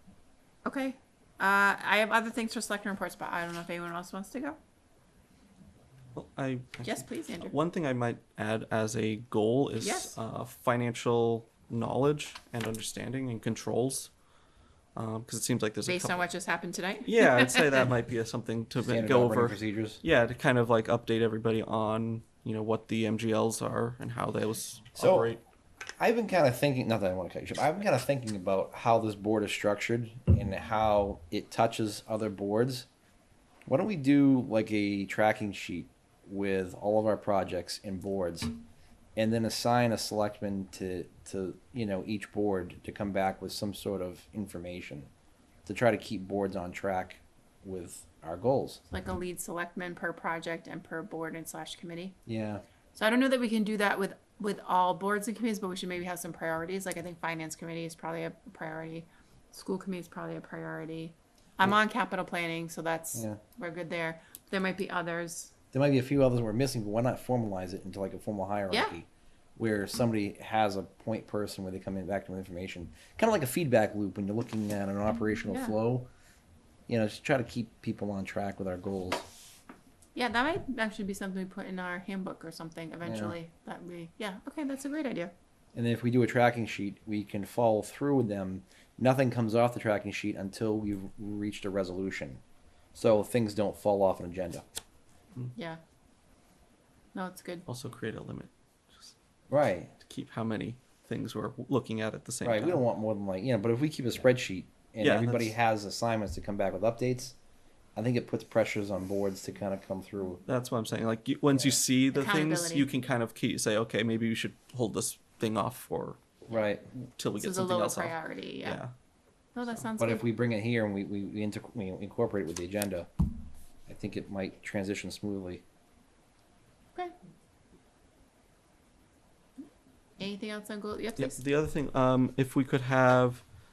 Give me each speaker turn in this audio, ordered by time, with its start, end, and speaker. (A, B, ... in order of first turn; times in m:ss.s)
0:00.6-0:04.6 A
0:06.1-0:14.1 B
0:06.8-0:07.6 A
0:09.8-0:10.2 A
0:14.9-0:16.2 B
0:15.8-0:17.8 A
0:17.0-0:25.4 B
0:18.8-0:20.0 C
0:25.0-0:25.3 C
0:26.0-0:32.9 C
0:33.7-0:38.5 C
0:39.2-0:45.1 C
0:45.6-0:48.8 C
0:48.9-0:52.1 A
0:52.2-0:52.6 C
0:52.9-1:05.5 A
1:03.1-1:03.4 C
1:05.7-1:16.1 C
1:08.7-1:09.0 A
1:15.5-1:15.8 A
1:16.9-1:19.2 C
1:20.1-1:25.3 A
1:23.0-1:23.4 C
1:25.7-1:32.4 C
1:32.9-1:34.6 C
1:35.5-1:35.8 A
1:37.1-1:37.6 A
1:37.7-1:39.1 B
1:39.5-1:39.9 C
1:40.0-1:42.8 B
1:42.4-1:47.4 C
1:45.0-1:45.5 B
1:48.0-1:50.4 C
1:50.4-1:56.2 B
1:52.1-1:52.9 A
1:56.5-1:56.9 C
1:57.1-1:58.9 B
1:57.4-1:58.8 A
1:59.5-2:00.2 A
2:00.0-2:03.1 C
2:03.9-2:05.6 C
2:10.2-2:11.4 A
2:11.2-2:13.4 B